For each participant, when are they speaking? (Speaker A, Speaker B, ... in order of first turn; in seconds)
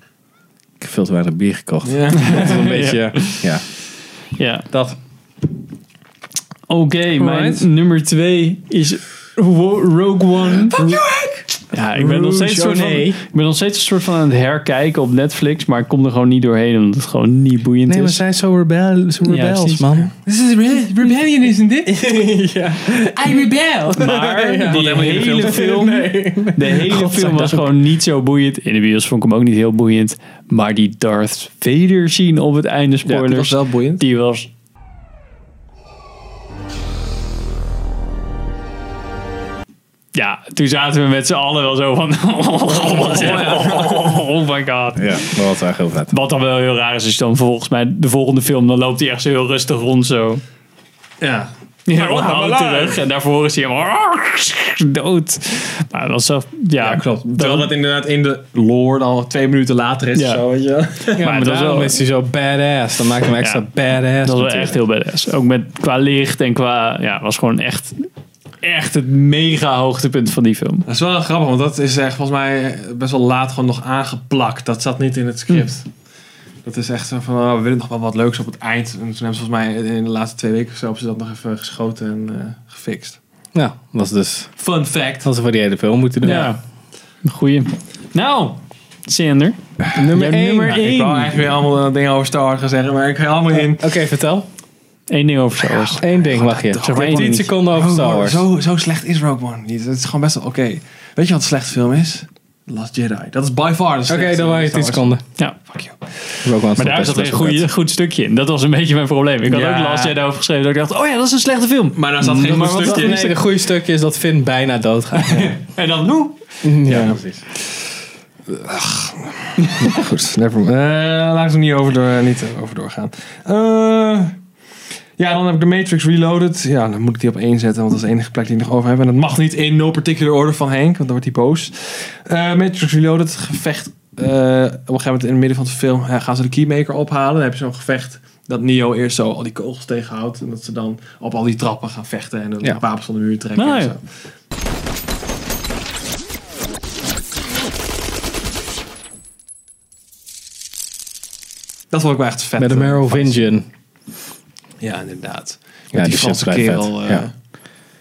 Speaker A: 0.8-3.7, 4.7-5.0, 7.2-7.6, 10.8-11.0, 11.9-13.2, 17.9-20.1, 21.9-27.7, 45.0-46.1, 61.1-64.8, 83.5-84.6, 85.2-86.5, 89.9-90.9, 93.5-94.5, 96.0-98.4, 104.1-105.2, 106.4-107.7, 112.3-115.5, 116.6-117.4, 152.6-153.7, 155.9-157.3
Speaker B: 1.8-2.5, 10.7-11.4, 20.2-22.0, 23.1-25.7, 33.1-34.0, 43.1-44.1, 51.2-53.0, 56.8-61.3, 70.9-75.9, 76.6-83.2, 84.6-85.3, 86.2-86.5, 90.7-93.9, 95.7-106.0, 109.5-110.2, 112.0-113.3, 115.3-116.1, 116.8-117.8, 118.5-124.4, 125.2-144.0, 151.9-153.5, 154.8-157.3
Speaker C: 2.2-3.5, 4.4-4.7, 6.7-10.8, 11.7-18.2, 19.2-19.8, 23.9-34.5, 40.1-45.4, 46.1-50.4, 51.9-57.7, 60.1-60.4, 61.2-62.0, 64.2-68.1, 68.6-70.8, 86.2-86.6, 87.2-91.3, 95.1-96.0, 96.8-97.5, 106.8-113.3, 115.8-116.3, 143.6-143.9